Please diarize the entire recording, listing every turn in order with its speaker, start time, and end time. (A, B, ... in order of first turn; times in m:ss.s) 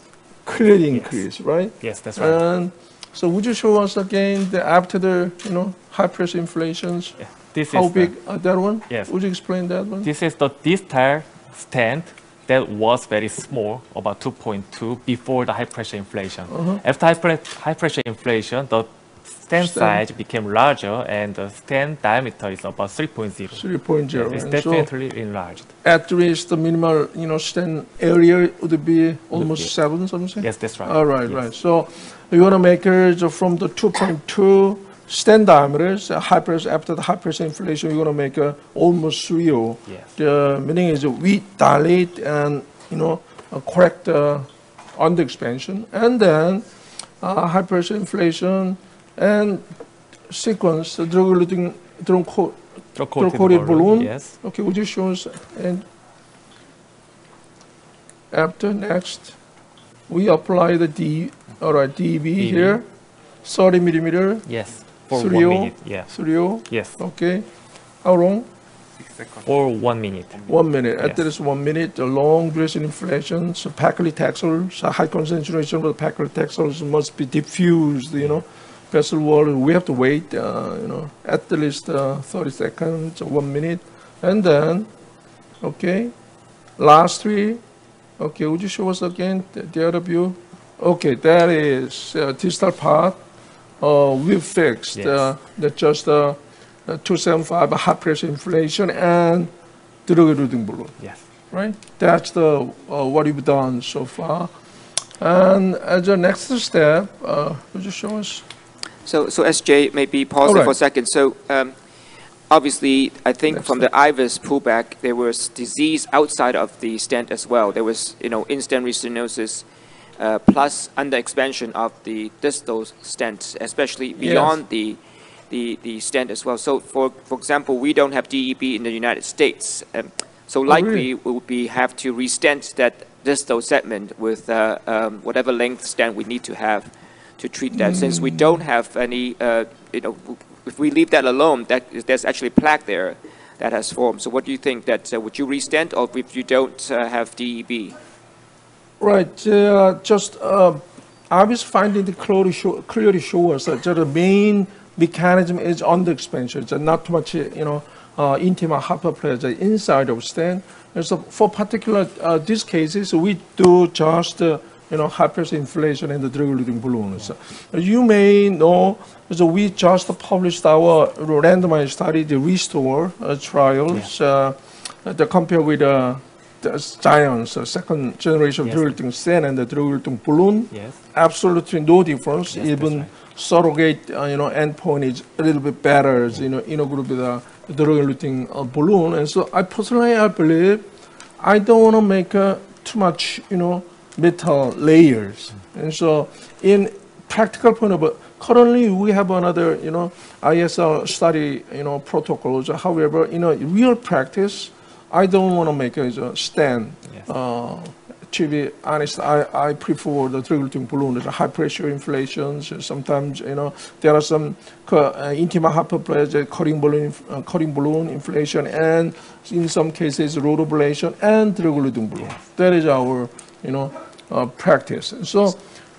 0:00.4-0:07.2 A
0:00.9-0:02.4 B
0:07.2-0:08.2 B
0:07.7-0:10.1 A
0:08.9-0:09.1 B
0:10.0-0:25.7 B
0:16.5-0:16.8 A
0:19.6-0:20.0 A
0:23.5-0:24.9 A
0:25.8-0:49.7 A
0:29.3-0:29.7 B
0:30.4-0:31.4 B
0:39.9-0:40.1 B
0:50.3-0:52.6 A
0:53.0-0:54.4 B
0:53.1-0:55.8 A
0:58.3-0:59.4 A
1:00.1-1:02.9 A
1:02.4-1:02.8 B
1:03.4-1:07.5 A
1:04.5-1:07.0 B
1:08.0-1:08.5 A
1:09.0-1:11.2 B
1:10.5-1:24.9 A
1:25.6-1:26.2 A
1:26.8-1:27.6 A
1:28.2-1:33.2 A
1:33.8-1:39.5 A
1:34.9-1:35.3 B
1:40.1-1:48.4 A
1:49.0-2:28.0 C
1:50.4-1:50.8 A
1:53.5-1:53.9 A
2:04.2-2:04.6 A
2:10.7-2:11.1 A
2:17.7-2:18.6 A
2:29.0-3:45.6 A
2:58.6-2:59.0 B
3:00.7-3:01.0 B
3:02.5-3:03.1 B
3:42.2-3:42.4 B